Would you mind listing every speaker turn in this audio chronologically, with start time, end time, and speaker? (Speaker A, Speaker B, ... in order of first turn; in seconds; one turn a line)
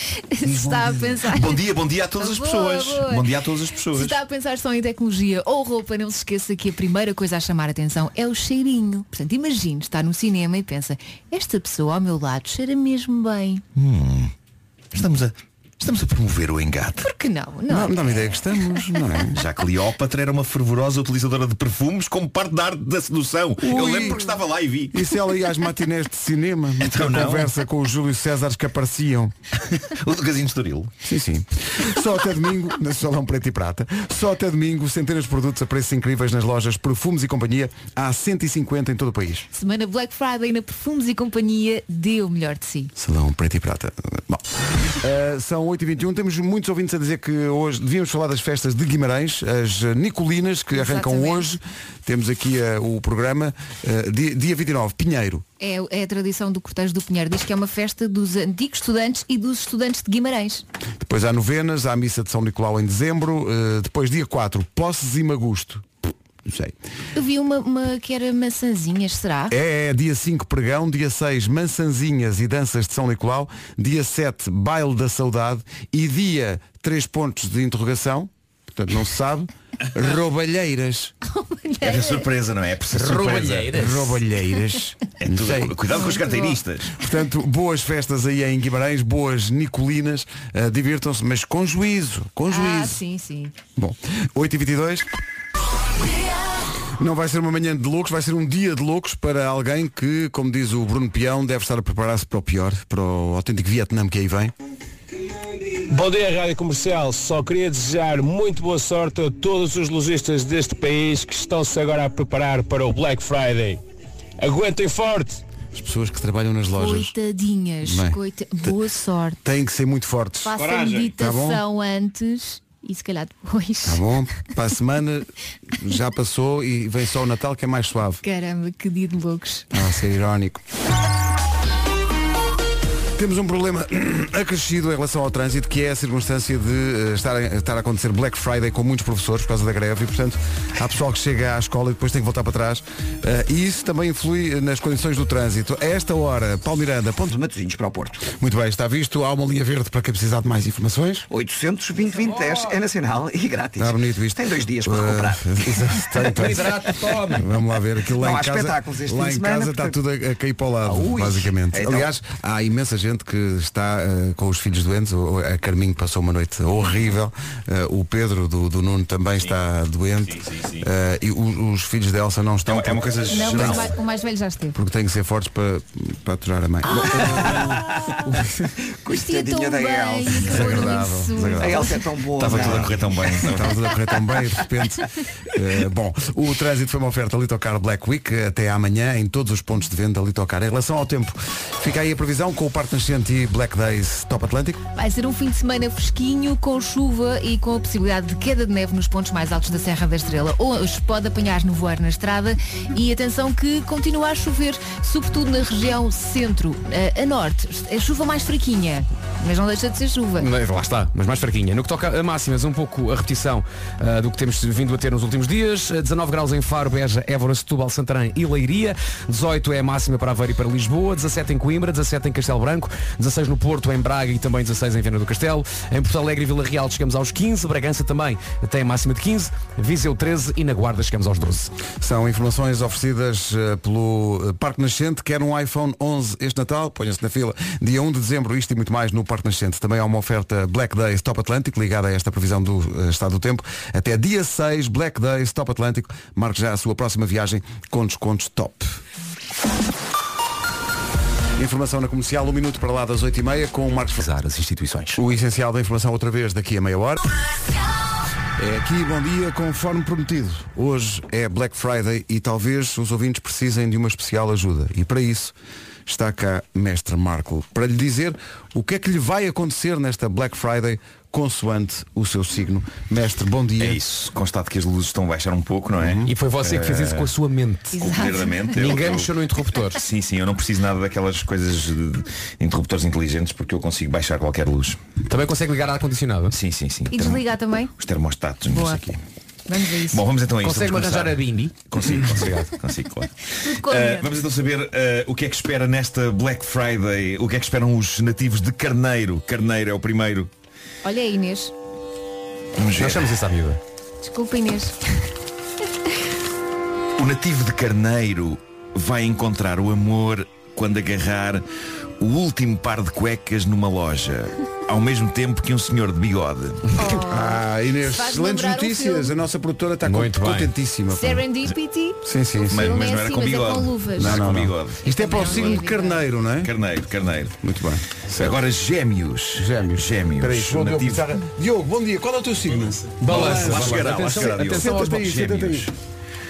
Speaker A: 0.2-1.6
Speaker B: 0.4-4.2
Speaker A: 2.2-13.6
Speaker B: 13.8-14.3
Speaker B: 14.9-17.1
Speaker A: 17.0-18.1
Speaker C: 17.7-19.4
Speaker B: 19.3-25.0
Speaker C: 23.6-24.2
Speaker A: 24.0-24.3
Speaker C: 24.9-29.3
Speaker B: 26.8-27.5
Speaker B: 29.7-30.9
Speaker C: 31.0-39.5
Speaker A: 39.5-42.9
Speaker C: 43.0-44.4
Speaker C: 45.0-55.4
Speaker A: 50.7-51.5
Speaker A: 55.6-60.6
Speaker C: 61.0-65.9
Speaker C: 66.4-66.7
Speaker A: 67.1-69.5
Speaker C: 69.5-81.1
Speaker A: 81.2-82.3
Speaker B: 81.8-83.8
Speaker D: 82.9-84.2
Speaker C: 83.7-85.8
Speaker B: 85.2-87.0
Speaker A: 85.9-86.6
Speaker C: 87.0-93.0
Speaker A: 92.5-93.5
Speaker C: 93.8-95.1
Speaker C: 97.0-104.5
Speaker E: 105.8-113.8
Speaker E: 114.4-115.4
Speaker C: 115.7-117.1
Speaker A: 116.7-119.4
Speaker C: 117.8-118.2
Speaker C: 119.4-120.5
Speaker A: 120.4-124.1
Speaker B: 120.5-121.1
Speaker C: 121.2-121.6
Speaker C: 123.8-128.2
Speaker A: 128.2-129.7
Speaker C: 129.7-130.6
Speaker C: 133.2-147.3
Speaker F: 147.3-148.3
Speaker C: 148.3-151.2
Speaker F: 151.3-156.7
Speaker D: 152.2-152.7
Speaker C: 153.8-173.9
Speaker D: 156.3-157.5
Speaker F: 158.1-160.0
Speaker F: 160.8-162.1
Speaker B: 170.3-170.8
Speaker B: 172.7-173.9
Speaker A: 173.3-174.8
Speaker C: 174.7-178.7
Speaker F: 176.9-177.9
Speaker F: 179.0-183.5
Speaker A: 179.1-181.9
Speaker C: 180.3-181.9
Speaker B: 182.4-183.7
Speaker C: 182.4-182.9
Speaker C: 183.4-194.8
Speaker A: 194.9-210.5
Speaker D: 210.4-231.7
Speaker C: 232.0-248.9
Speaker C: 251.6-254.3
Speaker D: 254.2-255.1
Speaker C: 255.2-257.2
Speaker C: 258.6-265.5
Speaker C: 266.1-274.0
Speaker B: 273.8-277.3
Speaker C: 276.0-276.3
Speaker D: 276.3-278.0
Speaker A: 277.9-278.8
Speaker B: 278.0-279.3
Speaker D: 278.8-280.0
Speaker B: 279.9-285.0
Speaker D: 285.3-286.6
Speaker B: 286.5-289.2
Speaker A: 287.1-287.9
Speaker A: 289.7-290.2
Speaker B: 290.1-300.5
Speaker D: 290.6-292.7
Speaker A: 293.6-294.3
Speaker A: 301.0-301.7
Speaker B: 302.8-303.4
Speaker D: 303.0-303.8
Speaker A: 304.2-305.0
Speaker B: 307.1-311.6
Speaker B: 312.2-317.0
Speaker A: 317.0-319.3
Speaker C: 317.1-321.4
Speaker D: 320.0-320.7
Speaker A: 321.1-324.5
Speaker C: 322.2-322.9
Speaker B: 322.7-325.6
Speaker C: 324.2-326.7
Speaker A: 325.0-326.2
Speaker B: 326.6-327.5
Speaker C: 327.6-328.6
Speaker B: 328.3-331.2
Speaker C: 329.6-335.9
Speaker D: 333.2-335.2
Speaker B: 333.3-335.9